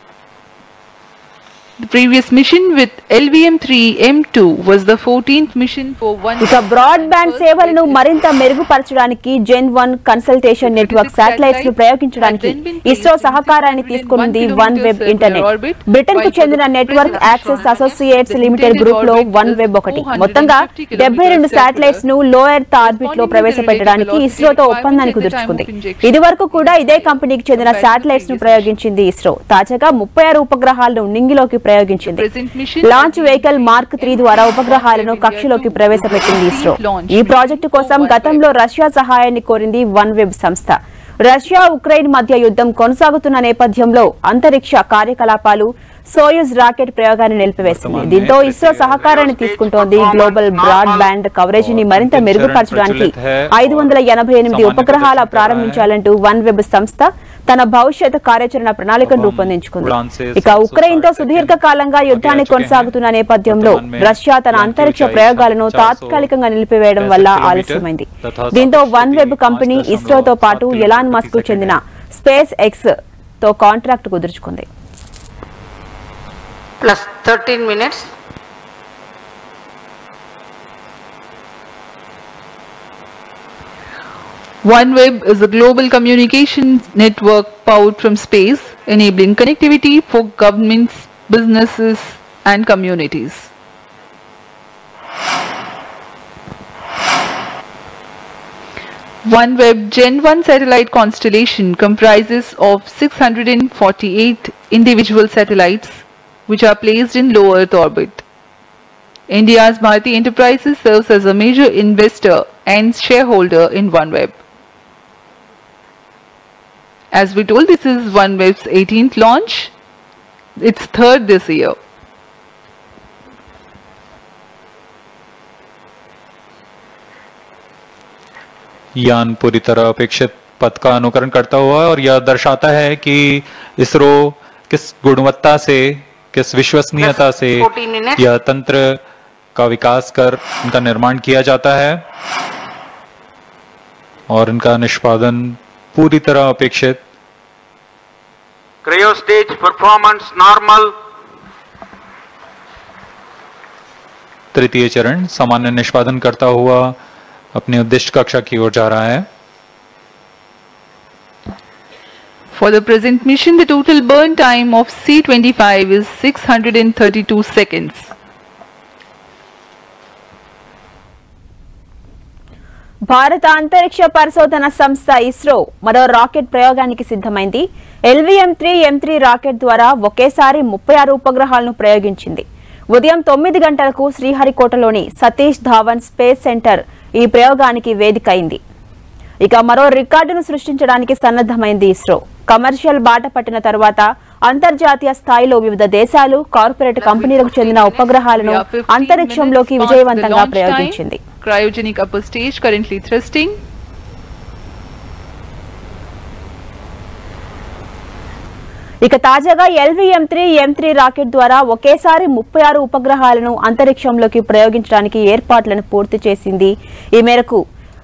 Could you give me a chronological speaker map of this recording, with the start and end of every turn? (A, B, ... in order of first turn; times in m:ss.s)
0:01.8-0:08.2 A
0:06.4-0:32.2 B
0:10.6-0:22.0 A
0:17.0-0:18.0 C
0:22.8-0:28.7 A
0:32.0-0:38.4 A
0:32.8-1:14.6 B
0:47.6-0:49.1 D
0:49.0-0:51.1 E
0:51.5-0:55.9 D
0:59.0-1:06.3 D
1:07.0-1:11.8 D
1:16.8-1:18.1 C
1:24.6-1:33.5 A
1:39.2-1:48.2 A
1:49.3-1:54.4 A
1:57.1-1:59.7 A
2:00.6-2:01.8 A
2:09.0-2:19.0 D
2:17.0-2:18.2 C
2:19.5-2:22.0 D
2:24.3-2:27.0 D
2:28.8-2:30.9 E
2:34.5-2:37.0 D
2:37.5-2:39.2 D
2:42.5-2:48.1 A
2:53.1-3:08.6 B
3:09.4-3:21.2 B
3:17.0-3:18.2 C
3:18.2-3:23.6 A
3:29.0-3:37.6 B